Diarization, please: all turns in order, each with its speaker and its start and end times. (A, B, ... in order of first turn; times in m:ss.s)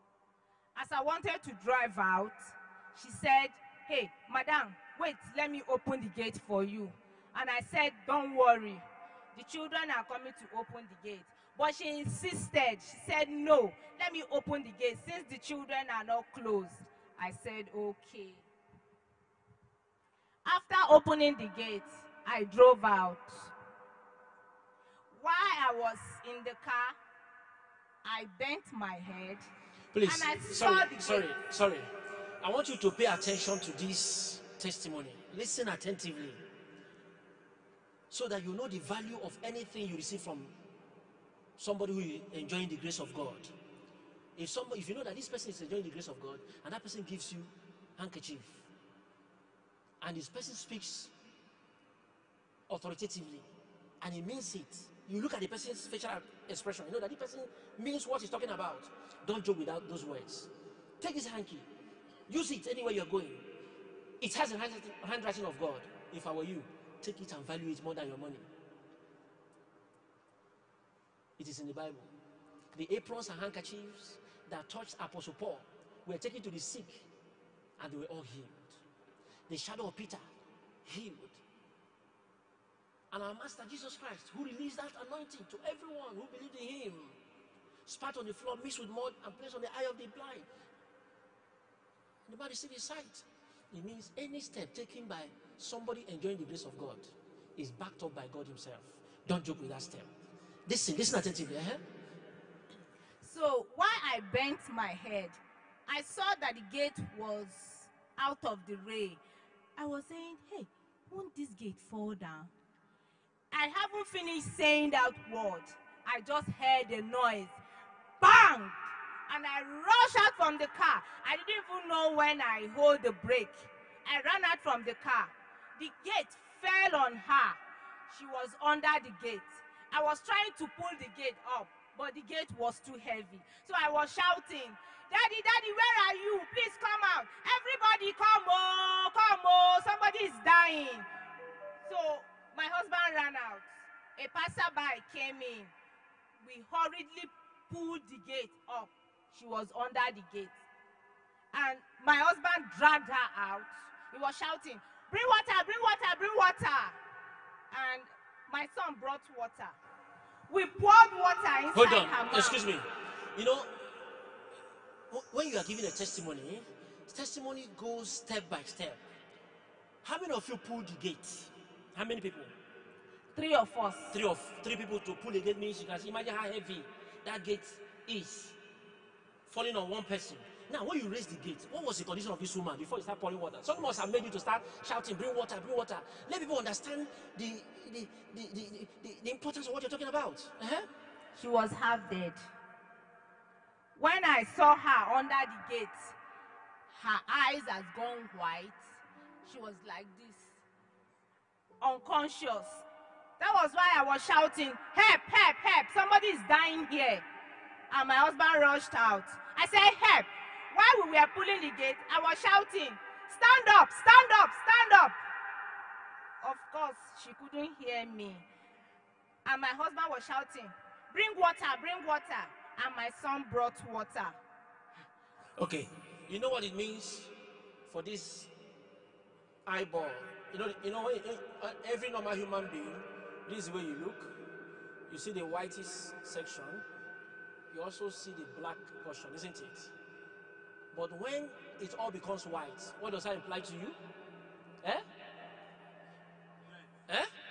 0:00.7-0:18.5 A
0:20.4-0:23.5 A
0:25.1-0:27.0 A
0:28.0-0:29.5 A
0:29.9-0:31.9 B
0:30.0-0:31.3 A
0:32.4-0:36.4 B
0:38.1-0:40.5 B
0:41.6-0:43.5 B
0:44.4-0:48.7 B
0:50.0-0:51.1 B
0:52.7-0:53.5 B
0:54.0-1:01.7 B
1:02.3-1:03.5 B
1:04.2-1:08.5 B
1:11.4-1:12.1 B
1:12.7-1:17.1 B
1:17.8-1:18.8 B
1:19.5-1:20.2 B
1:20.8-1:21.4 B
1:23.1-1:27.2 B
1:27.8-1:30.5 B
1:32.2-1:40.1 B
1:40.7-1:41.8 B
1:43.2-1:49.2 A
1:49.8-1:52.5 A
1:53.5-1:57.6 A
1:58.2-2:21.1 A
2:21.8-2:25.7 A
2:26.4-2:30.6 A
2:31.5-2:37.0 A
2:37.7-2:39.8 A
2:40.5-2:42.6 A
2:41.7-2:43.9 B
2:45.1-2:49.0 B
2:50.0-2:52.5 B
2:53.3-2:54.2 A
2:54.1-2:58.6 B
2:59.5-3:10.9 B
3:11.3-3:12.4 A
3:13.9-3:16.2 A
3:16.9-3:20.6 A
3:21.8-3:22.8 A
3:23.4-3:27.2 A
3:27.9-3:35.2 A
3:36.4-3:38.4 A
3:39.4-3:44.4 A
3:45.6-3:47.3 B
3:47.9-3:48.5 B
3:49.6-3:54.4 B
3:55.1-3:56.8 B
3:57.7-3:59.9 B
4:00.9-4:04.0 B